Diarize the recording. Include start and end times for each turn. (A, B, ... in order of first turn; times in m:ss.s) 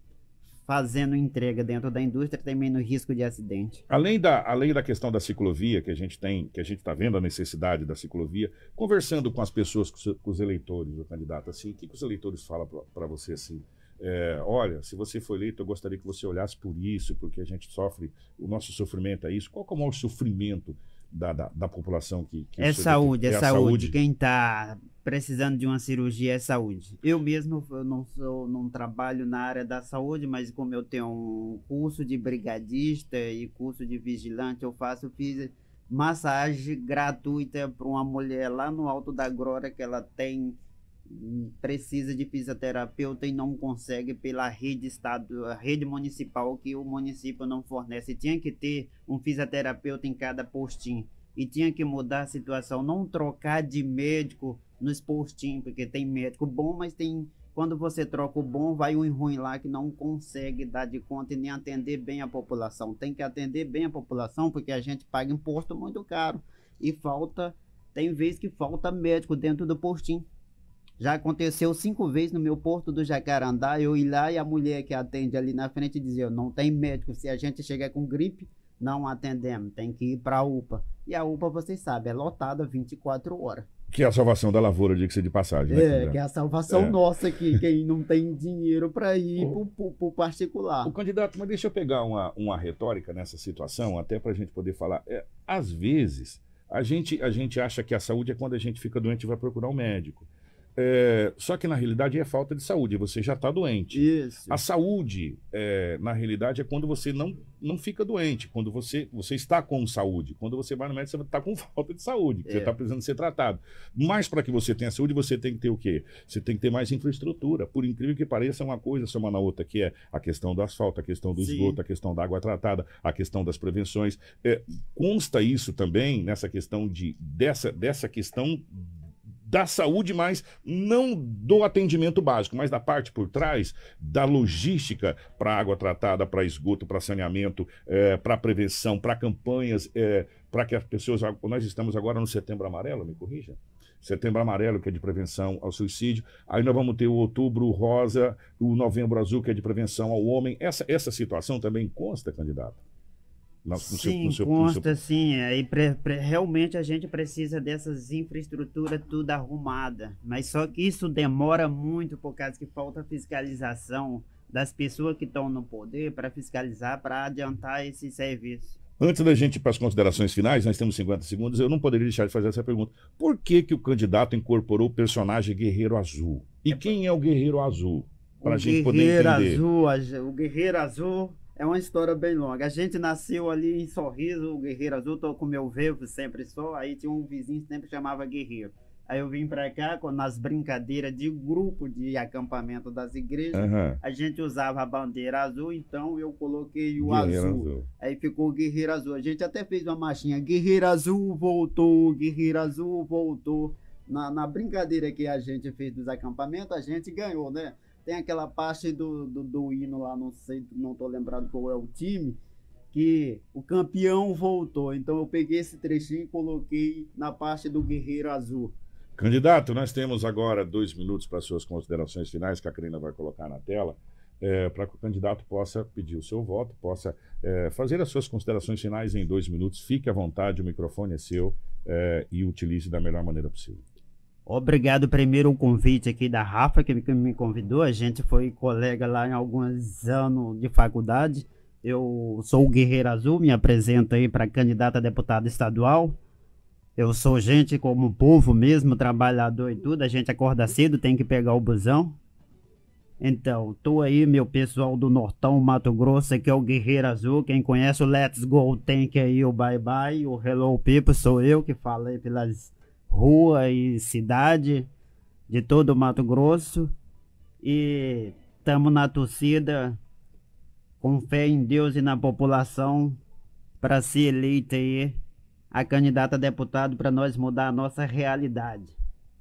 0:00.7-0:03.8 A
0:03.9-0:24.0 B
0:22.6-1:10.3 A
1:11.0-1:23.7 A
1:23.9-1:26.2 B
1:25.7-1:30.9 A
1:26.7-1:27.0 B
1:30.8-2:32.8 B
1:43.9-1:44.6 A
1:52.4-1:52.7 A
2:01.4-2:01.8 A
2:33.6-2:34.9 B
2:33.8-2:48.8 A
2:49.0-2:59.6 B
2:58.4-3:32.4 A
3:13.5-3:14.0 B
3:17.0-3:17.9 B
3:32.9-3:38.8 A
3:39.2-3:53.8 B
3:54.5-4:06.2 A
4:07.0-4:12.2 A
4:13.2-4:24.9 A
4:25.5-4:26.9 A
4:27.6-4:30.0 A
4:31.0-4:33.2 A
4:33.8-4:35.2 A
4:35.7-4:39.0 A